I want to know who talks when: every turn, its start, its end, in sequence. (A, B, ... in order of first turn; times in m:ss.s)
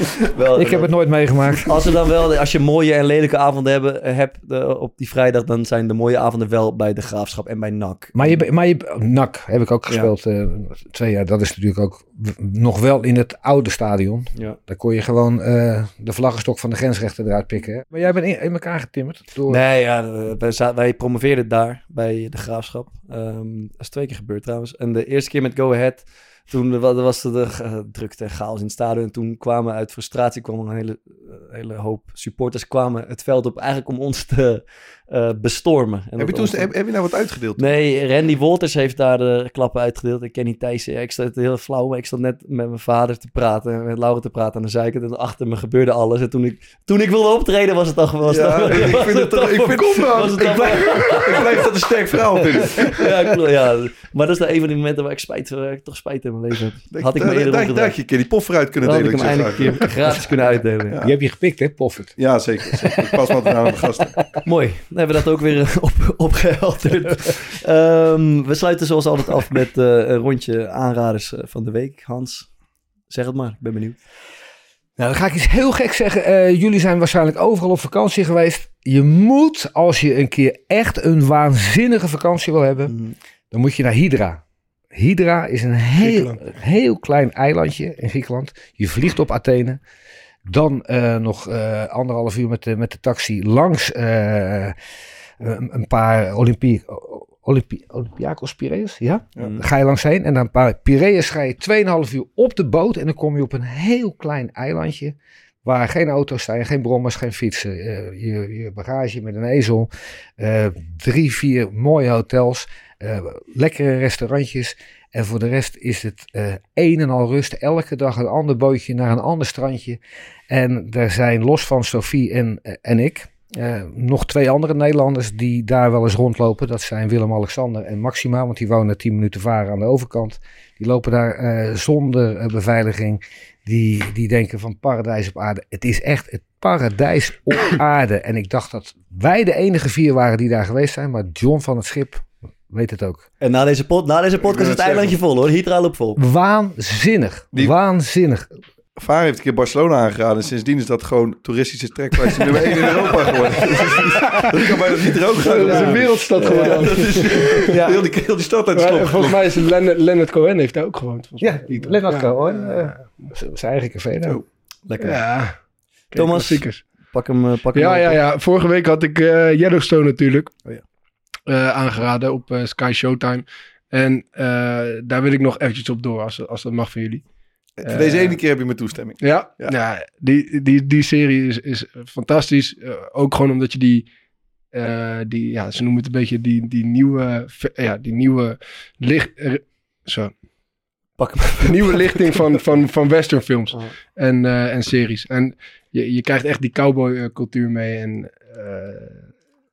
0:00.3-0:00.9 A
0:00.5-0:01.8 B
0:01.6-0:08.4 A
0:08.1-0:19.6 B
0:19.5-0:36.7 A
0:36.2-0:37.6 C
0:37.6-0:51.7 A
0:48.3-0:53.0 C
0:52.6-0:58.0 A
0:56.9-1:00.0 C
0:58.8-1:01.0 A
1:01.0-1:02.2 B
1:02.2-1:04.2 C
1:02.7-1:03.1 B
1:04.4-1:12.5 A
1:13.1-1:14.0 A
1:15.0-1:22.9 B
1:22.9-1:23.1 A
1:23.5-1:24.4 B
1:24.9-1:29.8 B
1:26.0-1:26.3 D
1:30.4-1:34.7 B
1:35.4-2:23.3 B
2:23.4-2:26.2 A
2:24.4-2:25.2 C
2:26.2-2:28.5 B
2:29.0-2:39.6 C
2:35.4-2:37.7 D
2:35.6-2:36.0 B
2:36.4-2:37.2 A
2:37.7-2:38.0 B
2:38.7-2:43.3 D
2:41.4-2:44.4 B
2:44.8-2:45.4 A
2:45.0-2:46.9 D
2:46.1-2:48.2 A
2:47.7-2:50.6 D
2:51.5-2:57.2 D
2:57.8-2:59.7 C
2:57.8-2:58.4 D
2:59.2-3:04.1 D
3:04.7-3:10.3 D
3:11.2-3:12.4 A
3:11.6-3:19.3 D